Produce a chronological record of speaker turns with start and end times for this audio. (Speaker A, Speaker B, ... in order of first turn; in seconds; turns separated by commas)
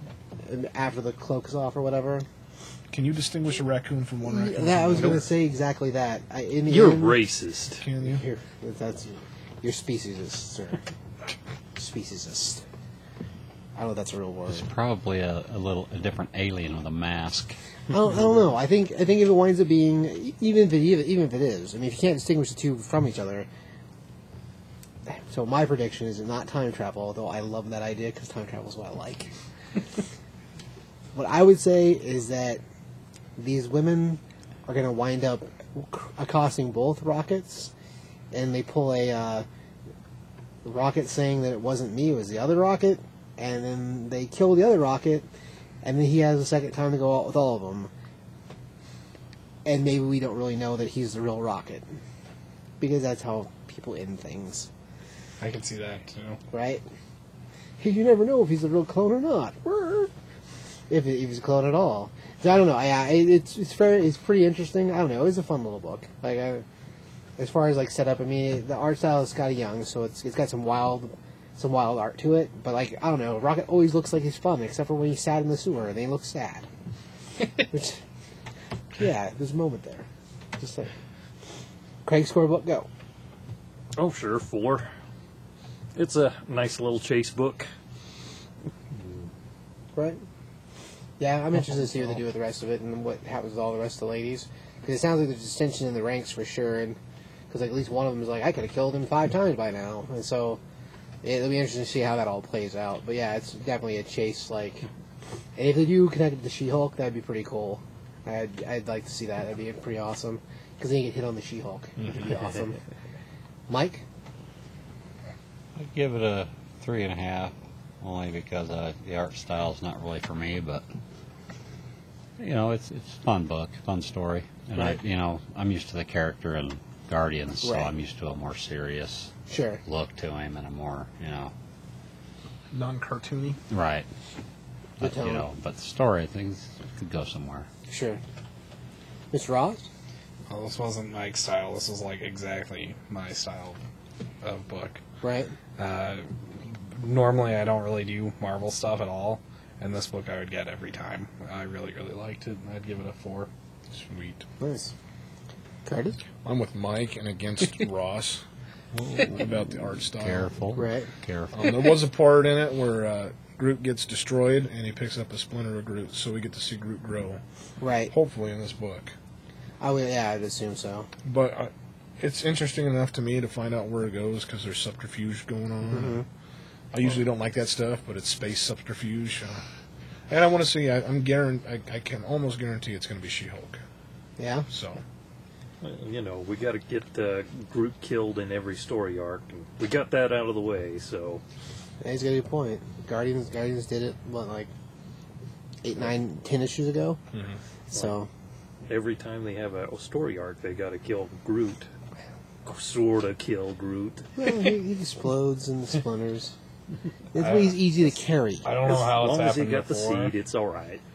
Speaker A: 0.4-2.2, Speaker B: 2.9-5.3, Speaker A: 4.2-7.2, Speaker C: 6.7-7.8, Speaker B: 7.8-8.2, Speaker A: 8.0-10.8, Speaker A: 11.8-12.6, Speaker A: 13.7-14.7, Speaker D: 14.5-17.6, Speaker A: 17.9-23.5, Speaker A: 25.1-29.3, Speaker A: 31.1-32.6, Speaker A: 33.4-37.7, Speaker A: 38.3-39.5, Speaker A: 40.6-45.3, Speaker A: 45.8-47.9, Speaker A: 49.6-52.0, Speaker A: 52.8-54.7, Speaker E: 55.4-56.4, Speaker A: 56.5-56.8, Speaker A: 57.8-60.1, Speaker A: 60.9-66.6, Speaker A: 67.4-76.7, Speaker A: 77.7-78.0, Speaker A: 79.0-80.1, Speaker A: 80.6-80.9, Speaker A: 82.0-82.9, Speaker C: 84.0-84.9, Speaker C: 85.9-87.7, Speaker A: 89.9-90.2, Speaker A: 91.2-97.0, Speaker A: 97.5-100.6, Speaker A: 101.2-104.9, Speaker A: 105.5-112.8, Speaker B: 112.0-112.2, Speaker A: 113.7-114.0, Speaker D: 115.7-120.8, Speaker D: 122.4-129.3, Speaker A: 124.7-125.0, Speaker A: 127.6-127.9, Speaker A: 129.5-129.8, Speaker D: 129.8-131.5, Speaker B: 132.7-133.6, Speaker D: 133.7-134.1, Speaker A: 135.0-135.5, Speaker D: 135.0-137.7, Speaker A: 137.9-138.2, Speaker A: 139.3-139.9, Speaker E: 140.5-143.8, Speaker E: 144.4-145.0, Speaker A: 145.2-145.5, Speaker E: 145.8-153.5, Speaker B: 153.9-154.4, Speaker A: 154.6-154.9, Speaker A: 155.8-156.2, Speaker B: 156.4-158.4, Speaker D: 158.9-161.9, Speaker B: 159.2-160.5, Speaker A: 160.7-161.1, Speaker B: 161.5-167.4, Speaker A: 167.8-168.1, Speaker B: 168.1-169.1, Speaker A: 169.8-171.1, Speaker B: 171.2-176.2, Speaker A: 175.9-176.2, Speaker B: 176.9-179.6, Speaker B: 180.3-183.8, Speaker A: 184.4-184.7, Speaker B: 184.7-185.0, Speaker C: 185.8-191.4, Speaker A: 192.0-194.7, Speaker A: 195.8-197.2, Speaker B: 197.3-197.6, Speaker A: 197.9-198.3, Speaker C: 198.9-201.9, Speaker C: 202.6-204.3, Speaker A: 204.4-206.5, Speaker A: 207.3-208.7, Speaker E: 207.4-207.8, Speaker E: 208.6-210.3, Speaker C: 208.8-211.0